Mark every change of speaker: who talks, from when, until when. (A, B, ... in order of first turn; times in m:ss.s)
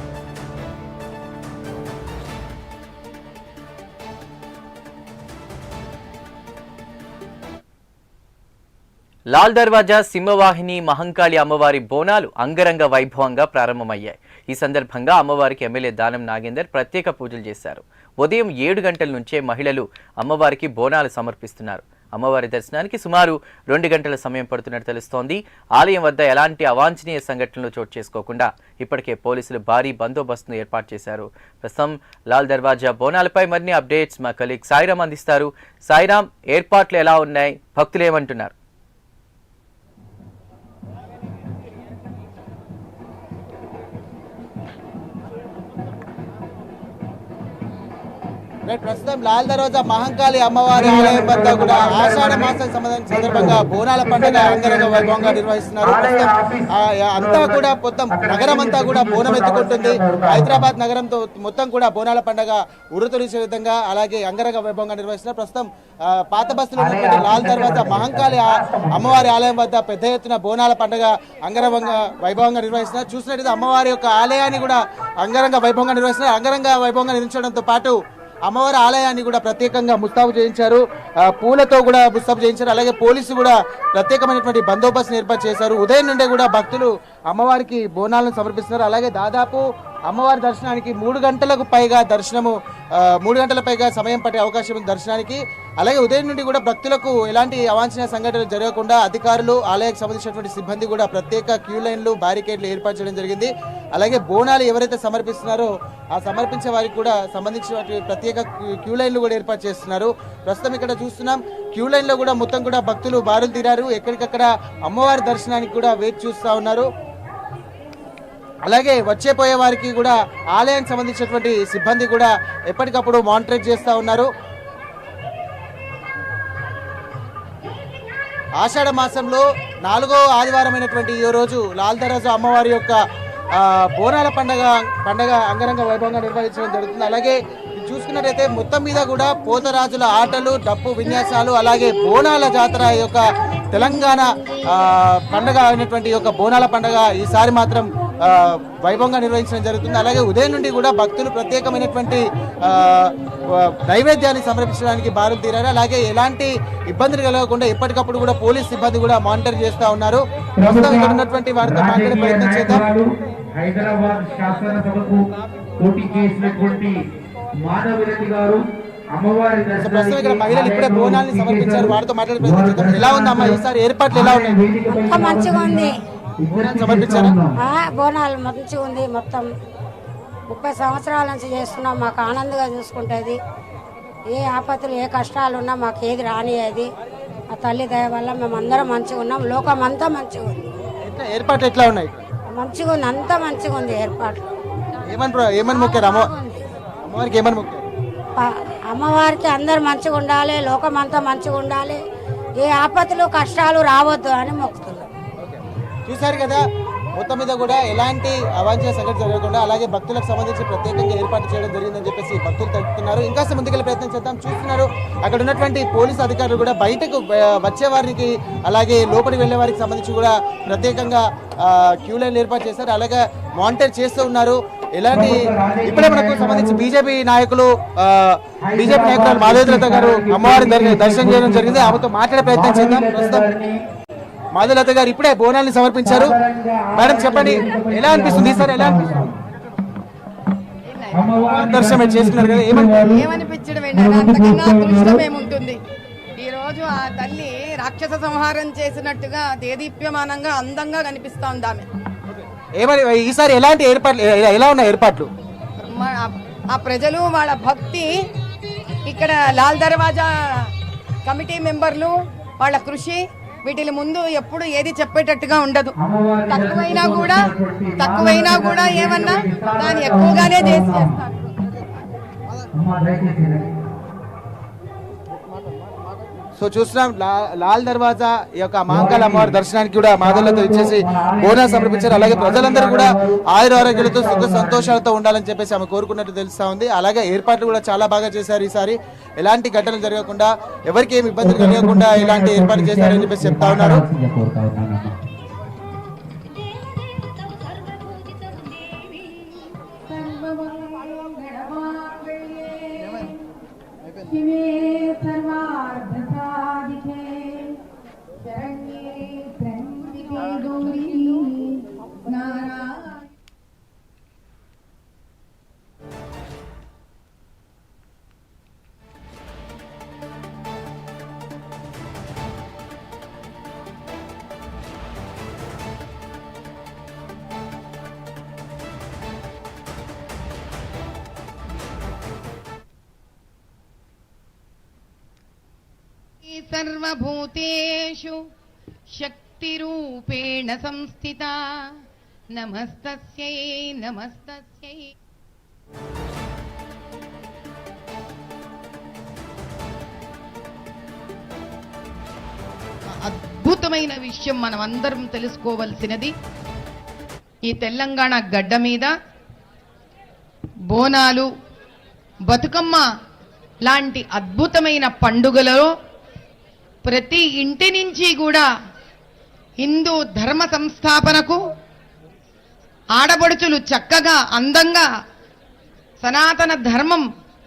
0:09.3-0:38.5 A
0:48.7-1:56.9 B
0:50.7-0:52.6 C
0:53.1-1:00.7 C
1:06.8-1:09.3 C
1:58.7-2:04.3 B
2:08.6-2:13.0 B
2:13.5-2:42.9 B
2:40.6-2:45.2 C
2:45.8-2:47.0 C
2:47.6-2:53.6 C
2:49.8-2:54.6 B
2:54.1-2:57.6 C
2:54.9-2:55.9 D
2:56.5-2:57.4 B
2:57.6-2:59.5 D
3:00.5-3:03.4 D
3:04.3-3:06.9 D
3:07.5-3:10.7 D
3:11.0-3:12.2 B
3:12.5-3:14.4 D
3:15.1-3:16.3 B
3:15.7-3:16.6 D
3:17.0-3:17.8 B
3:18.4-3:22.0 D
3:22.6-3:25.1 D
3:26.1-3:26.6 B
3:27.2-3:53.5 B
3:45.1-3:46.8 C
3:48.6-3:53.8 C
3:54.5-3:56.4 B
3:56.0-3:59.3 C
3:56.9-3:59.3 B
4:00.9-4:01.3 E
4:01.1-4:03.2 C
4:01.5-4:03.2 B
4:03.1-4:05.8 E
4:03.9-4:05.2 C
4:06.4-4:11.9 E
4:12.8-4:15.3 B
4:15.8-4:18.1 E
4:19.1-4:20.7 E
4:21.2-4:25.9 E
4:26.0-4:31.2 C
4:26.5-4:31.1 E
4:32.7-4:33.7 C
4:36.6-4:54.0 B
4:38.9-4:39.6 C
4:40.2-4:45.0 C
4:51.4-4:55.1 C
4:59.9-5:03.4 E
5:04.2-5:07.8 E
5:08.4-5:13.3 E
5:36.4-5:38.4 E
5:39.2-5:42.0 E
5:42.5-5:45.1 E
5:53.2-5:56.3 E
5:57.7-5:59.1 E
6:00.9-6:01.5 E
6:02.5-6:03.1 E
6:03.9-6:05.9 E
6:07.0-6:08.7 E
6:09.8-6:11.6 E
6:13.2-6:15.1 E
6:16.2-6:17.2 E